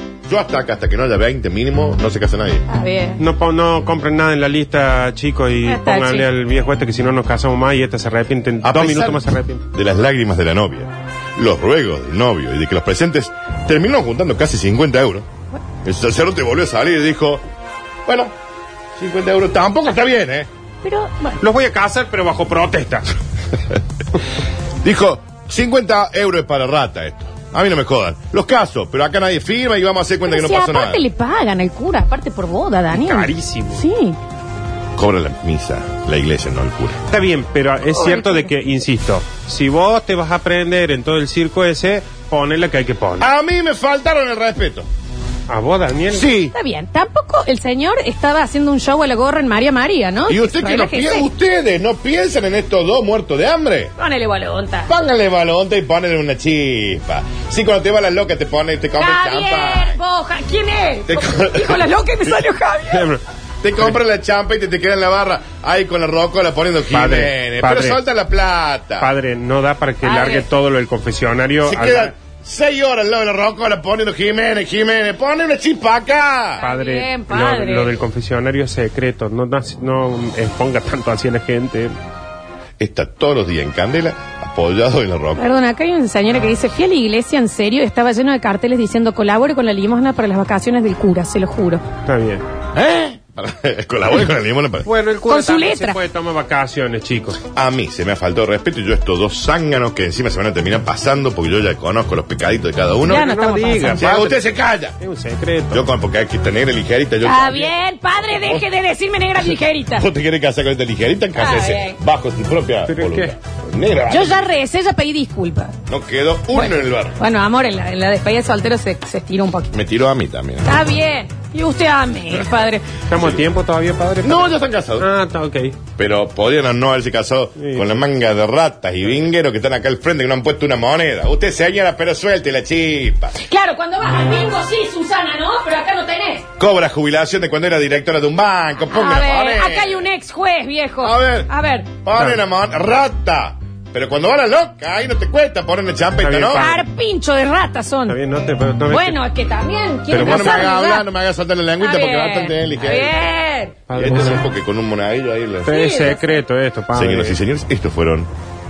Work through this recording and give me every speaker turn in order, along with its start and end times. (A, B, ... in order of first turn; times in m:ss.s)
0:00.3-0:02.6 A
0:02.7-0:03.2 B
0:03.2-0:09.6 C
0:05.6-0:06.3 B
0:08.6-0:09.2 A
0:09.7-0:15.3 A
0:15.8-0:17.4 A
0:18.1-0:18.3 A
0:19.0-0:20.5 A
0:20.8-0:21.4 B
0:21.4-0:23.2 C
0:24.8-0:31.0 A
0:30.2-0:34.2 B
0:32.9-0:33.8 C
0:35.0-0:37.0 A
0:37.1-0:43.3 C
0:38.0-0:38.5 B
0:43.2-0:44.9 A
0:45.5-0:46.3 C
0:46.1-0:46.6 A
0:46.5-0:51.3 B
0:50.3-0:53.9 A
0:54.0-0:54.9 B
0:54.9-1:00.0 A
0:59.0-1:03.1 B
1:01.1-1:02.4 A
1:02.9-1:03.2 C
1:03.6-1:09.1 A
1:06.9-1:08.0 C
1:09.0-1:12.1 C
1:10.0-1:10.5 B
1:11.6-1:16.6 A
1:16.6-1:17.9 B
1:16.6-1:21.9 C
1:22.8-1:25.4 A
1:25.4-1:31.8 B
1:32.1-1:32.4 C
1:32.7-1:34.9 A
1:34.8-1:37.4 C
1:35.3-1:36.0 B
1:37.5-1:43.3 A
1:43.0-1:44.1 B
1:43.0-1:44.4 C
1:44.0-1:45.0 A
1:45.0-1:45.9 C
1:45.7-1:47.7 A
1:47.2-1:50.1 B
1:49.8-1:54.5 A
1:51.4-1:52.0 B
1:52.9-1:53.3 C
1:54.1-1:55.7 B
1:55.9-1:57.2 A
1:56.5-1:59.7 B
1:59.7-2:00.8 A
2:00.6-2:02.9 B
2:03.1-2:05.8 C
2:03.1-2:03.4 A
2:04.2-2:05.1 A
2:06.0-2:13.4 A
2:07.6-2:08.0 C
2:13.4-2:16.5 B
2:16.6-2:20.1 A
2:18.9-2:21.9 B
2:21.0-2:26.7 A
2:22.1-2:22.4 C
2:26.2-2:26.9 C
2:26.5-2:28.2 B
2:28.1-2:29.2 C
2:28.9-2:31.1 B
2:30.1-2:30.6 C
2:30.1-2:33.2 A
2:31.8-2:33.8 B
2:33.9-2:34.4 C
2:33.9-2:35.7 A
2:35.6-2:37.4 C
2:35.7-2:36.4 B
2:36.9-2:38.3 A